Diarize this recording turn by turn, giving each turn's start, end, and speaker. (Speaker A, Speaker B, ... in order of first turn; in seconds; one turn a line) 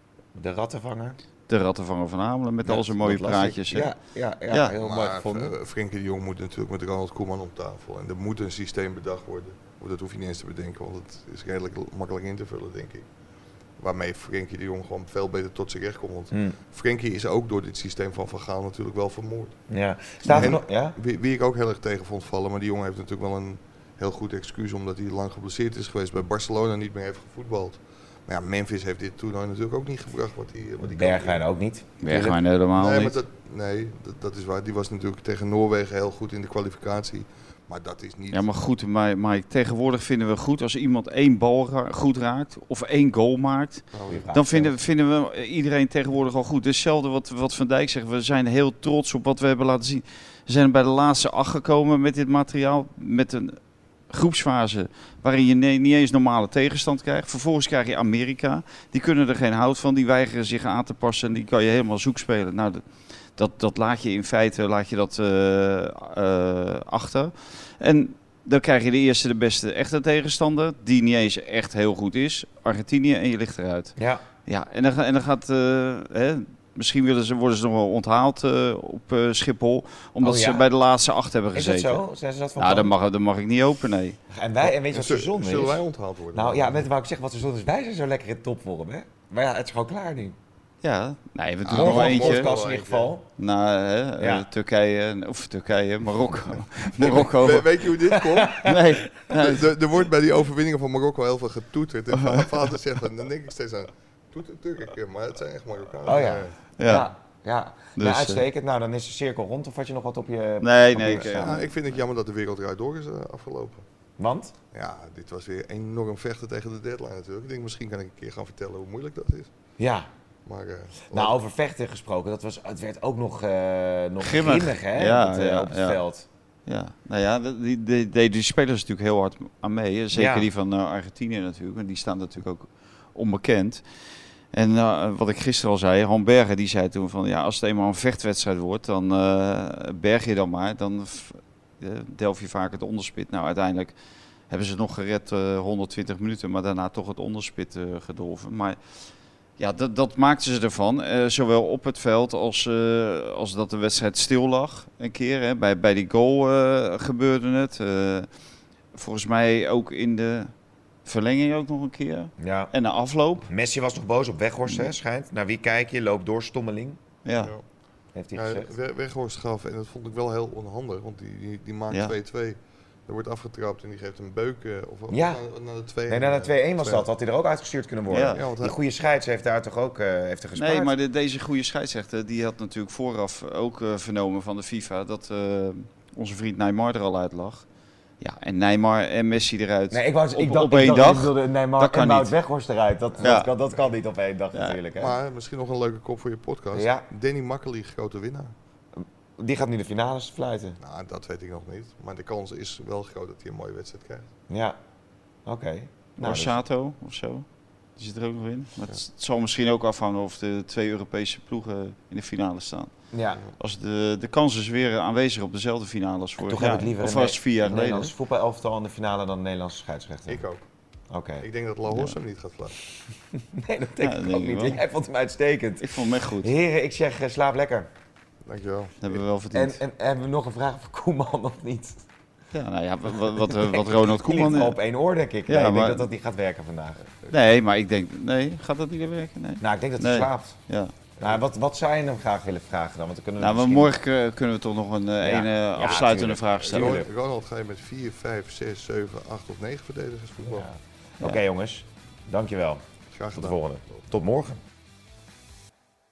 Speaker A: 0.3-1.2
Speaker B: 1.5-3.9
Speaker A: 2.6-5.5
Speaker C: 4.7-13.1
Speaker C: 13.8-19.6
Speaker A: 16.3-16.6
Speaker A: 19.7-20.9
Speaker C: 20.2-31.4
Speaker A: 30.8-32.4
Speaker B: 32.0-33.2
Speaker C: 32.8-38.5
Speaker B: 38.3-62.8
Speaker C: 43.9-44.3
Speaker A: 44.1-44.8
Speaker B: 63.4-73.9
Speaker A: 74.0-74.2
Speaker B: 74.5-82.0
Speaker A: 80.2-80.7
Speaker A: 81.5-82.9
Speaker B: 82.6-84.2
Speaker A: 84.3-85.8
Speaker C: 84.7-86.8
Speaker A: 86.3-90.4
Speaker B: 90.8-92.5
Speaker C: 91.7-93.1
Speaker A: 91.7-93.2
Speaker B: 93.4-97.7
Speaker A: 94.2-94.5
Speaker C: 96.9-106.6
Speaker A: 98.0-98.8
Speaker B: 98.6-99.6
Speaker B: 102.1-102.5
Speaker A: 106.0-111.6
Speaker B: 106.8-107.1
Speaker B: 108.0-108.4
Speaker B: 110.6-111.7
Speaker C: 111.0-113.8
Speaker A: 114.2-114.5
Speaker C: 114.7-119.5
Speaker A: 119.8-120.1
Speaker C: 120.5-121.4
Speaker A: 121.1-126.3
Speaker B: 124.2-126.0
Speaker B: 126.7-133.8
Speaker A: 130.1-130.5
Speaker B: 134.5-143.9
Speaker B: 144.5-148.8
Speaker B: 149.6-158.3
Speaker B: 158.9-160.5
Speaker B: 161.1-163.5
Speaker A: 162.4-162.7
Speaker A: 163.5-167.0
Speaker B: 167.2-167.5
Speaker A: 168.1-168.7
Speaker C: 168.3-177.1
Speaker A: 175.1-175.4
Speaker A: 176.1-180.9
Speaker B: 178.1-178.4
Speaker C: 178.2-178.8
Speaker B: 180.6-187.7
Speaker B: 188.2-192.3
Speaker A: 189.9-195.2
Speaker C: 193.1-193.8
Speaker B: 193.2-193.5
Speaker C: 195.0-198.5
Speaker A: 196.7-197.1
Speaker A: 198.9-200.8
Speaker C: 200.8-204.3
Speaker A: 204.5-204.8
Speaker A: 205.4-206.6
Speaker B: 206.2-212.9
Speaker A: 213.1-213.4
Speaker B: 213.6-218.1
Speaker A: 216.4-220.4
Speaker C: 220.3-220.6
Speaker A: 221.1-221.5
Speaker C: 221.4-222.8
Speaker B: 221.9-222.1
Speaker A: 223.3-227.9
Speaker B: 224.0-224.8
Speaker B: 225.8-226.5
Speaker C: 228.4-229.2
Speaker B: 229.0-229.8
Speaker A: 229.5-232.1
Speaker B: 232.5-234.8
Speaker A: 233.3-237.0
Speaker B: 235.5-236.1
Speaker B: 237.3-240.9
Speaker A: 239.6-240.6
Speaker A: 241.2-243.9
Speaker B: 243.4-247.1
Speaker A: 245.2-247.1
Speaker C: 246.6-250.7
Speaker A: 250.4-254.6
Speaker C: 253.1-253.6